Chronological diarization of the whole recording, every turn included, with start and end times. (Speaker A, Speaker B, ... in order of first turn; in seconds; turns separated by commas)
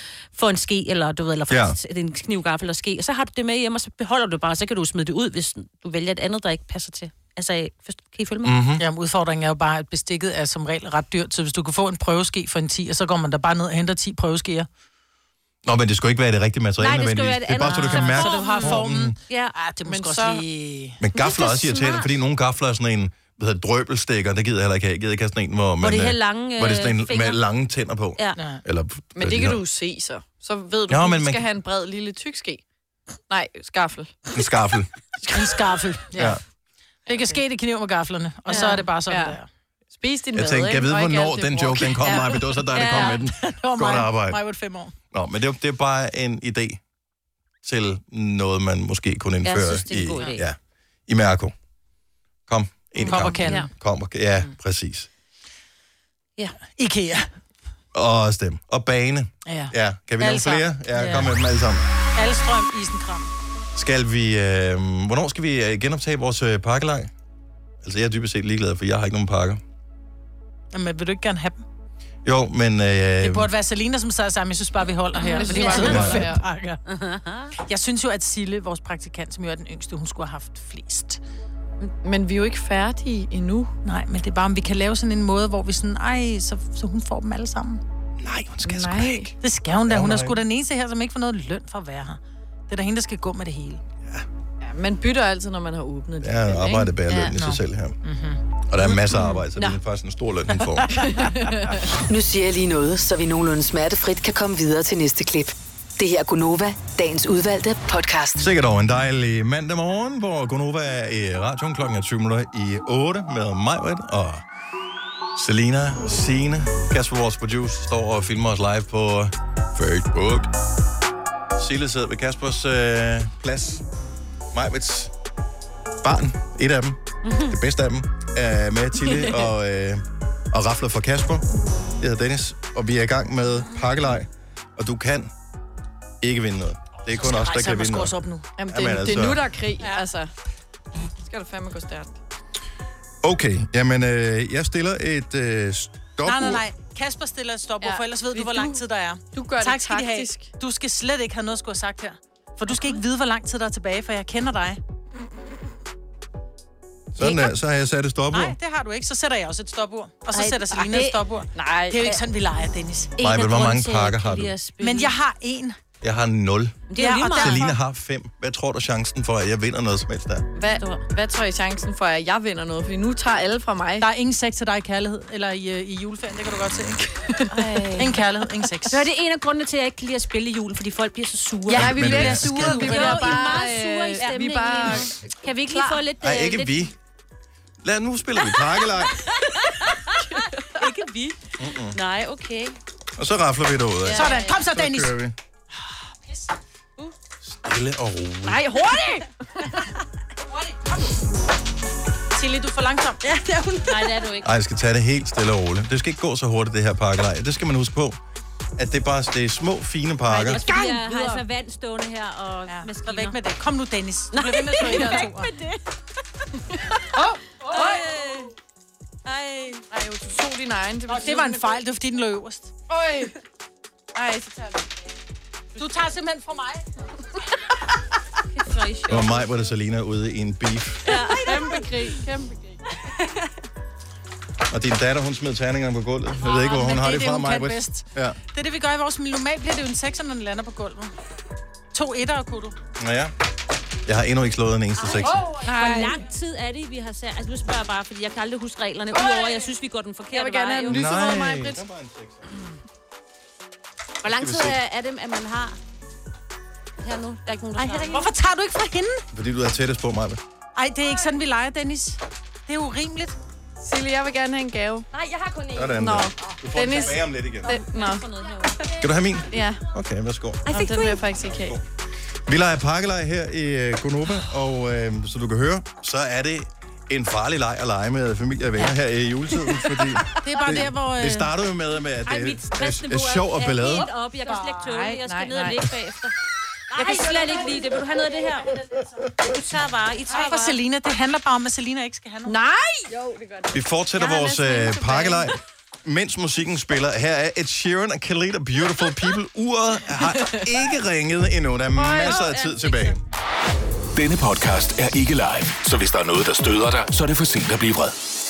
Speaker A: 0.3-8.6, Speaker B: 1.5-1.8, Speaker B: 8.4-8.8, Speaker C: 8.8-14.7, Speaker B: 15.6-19.1, Speaker A: 16.8-19.6, Speaker C: 17.6-21.0, Speaker D: 19.9-20.4, Speaker B: 21.0-29.6, Speaker A: 21.1-22.1, Speaker A: 25.8-27.4, Speaker C: 28.4-28.6, Speaker D: 29.1-32.6, Speaker B: 30.9-31.4, Speaker D: 33.3-34.3, Speaker B: 34.3-34.9, Speaker C: 35.3-36.4, Speaker B: 36.1-36.4, Speaker C: 37.0-39.5, Speaker D: 37.1-37.4, Speaker A: 38.5-38.8, Speaker D: 38.5-39.4, Speaker D: 40.0-43.0, Speaker B: 40.3-44.4, Speaker A: 42.7-43.2, Speaker C: 42.7-44.9, Speaker B: 45.1-46.8, Speaker B: 47.6-51.5, Speaker A: 49.4-50.4, Speaker B: 52.5-55.1, Speaker A: 53.0-53.7, Speaker C: 53.0-53.7, Speaker C: 56.6-57.3, Speaker B: 57.9-61.9, Speaker C: 59.5-61.3, Speaker C: 62.1-63.3, Speaker B: 63.7-67.1, Speaker B: 67.8-69.6, Speaker C: 70.7-71.6, Speaker B: 72.2-73.5, Speaker C: 73.2-76.8, Speaker A: 75.2-76.3, Speaker D: 75.2-76.4, Speaker B: 75.8-76.2, Speaker A: 76.9-77.5, Speaker C: 77.6-81.2, Speaker D: 82.0-83.7, Speaker C: 83.8-87.8, Speaker B: 88.2-89.3, Speaker D: 88.6-89.3, Speaker C: 89.4-93.8, Speaker B: 89.9-90.4, Speaker D: 94.6-97.3, Speaker B: 96.2-98.0, Speaker C: 97.2-98.4, Speaker B: 98.7-101.2, Speaker C: 100.9-101.3, Speaker D: 101.1-101.7, Speaker E: 102.0-108.4, Speaker B: 108.4-114.4, Speaker B: 115.3-120.5, Speaker B: 121.6-123.8, Speaker B: 124.5-125.1, Speaker B: 126.0-131.4, Speaker A: 127.2-127.6, Speaker D: 129.1-129.5, Speaker B: 132.0-135.3, Speaker B: 136.2-138.1, Speaker C: 137.1-138.5, Speaker D: 138.6-140.3, Speaker B: 138.7-139.4, Speaker D: 141.2-142.2, Speaker B: 143.2-146.6, Speaker C: 146.2-154.8, Speaker D: 147.8-148.8, Speaker D: 149.3-150.5, Speaker B: 157.1-158.5, Speaker A: 157.2-157.5, Speaker C: 158.3-163.1, Speaker A: 160.3-161.2, Speaker D: 161.5-162.2, Speaker A: 163.2-165.1, Speaker B: 163.2-164.5, Speaker C: 164.8-165.8, Speaker B: 166.0-170.4, Speaker A: 166.9-167.7, Speaker C: 166.9-167.7, Speaker D: 170.6-174.1, Speaker A: 170.7-171.0, Speaker C: 174.0-179.0, Speaker A: 177.6-178.2, Speaker A: 178.9-186.9, Speaker D: 181.7-186.0, Speaker B: 181.7-182.9, Speaker C: 181.7-183.4, Speaker B: 186.2-186.9, Speaker B: 187.8-189.2, Speaker A: 189.3-191.4, Speaker B: 191.6-192.0, Speaker A: 191.9-192.8, Speaker B: 193.2-195.3, Speaker C: 194.1-195.1, Speaker B: 197.4-198.6, Speaker D: 198.8-199.2, Speaker C: 202.3-203.3, Speaker A: 203.7-204.5, Speaker B: 204.4-208.2, Speaker B: 208.8-210.6, Speaker C: 210.3-211.4, Speaker A: 210.5-213.4, Speaker C: 212.7-215.5, Speaker A: 214.3-215.8, Speaker D: 214.8-215.3, Speaker C: 217.2-218.1, Speaker A: 217.6-218.5, Speaker D: 217.7-218.1, Speaker A: 219.2-219.8, Speaker D: 219.9-221.8, Speaker C: 221.1-222.7, Speaker D: 222.9-223.3, Speaker D: 224.1-224.9, Speaker C: 225.8-226.8, Speaker A: 228.5-229.7, Speaker B: 229.1-231.1, Speaker A: 231.1-232.0, Speaker D: 231.1-232.8, Speaker B: 234.7-238.4, Speaker C: 236.4-241.1, Speaker C: 241.9-242.8, Speaker B: 243.0-243.3, Speaker B: 244.0-245.4, Speaker A: 245.0-251.0, Speaker D: 245.4-246.2, Speaker C: 245.6-246.1, Speaker D: 249.1-249.7, Speaker D: 250.3-251.8, Speaker B: 250.9-252.5, Speaker A: 254.2-255.8, Speaker B: 254.3-254.8, Speaker A: 257.0-258.3, Speaker C: 257.8-259.2, Speaker B: 259.3-260.4, Speaker C: 260.8-263.4, Speaker D: 263.8-265.1, Speaker B: 265.7-267.7, Speaker D: 265.8-268.3, Speaker A: 267.6-268.9, Speaker B: 269.0-270.6, Speaker D: 269.5-269.8, Speaker A: 270.7-271.2, Speaker D: 270.7-271.8, Speaker B: 271.5-271.8, Speaker B: 272.5-284.1, Speaker C: 280.4-281.5, Speaker A: 282.2-286.3, Speaker D: 284.4-285.8, Speaker A: 286.9-290.8, Speaker D: 287.0-287.9, Speaker C: 290.3-292.6, Speaker D: 292.5-293.7, Speaker B: 293.7-303.2, Speaker A: 294.2-295.3, Speaker D: 294.6-295.4, Speaker D: 300.3-300.6, Speaker A: 302.0-303.1, Speaker F: 304.1-308.1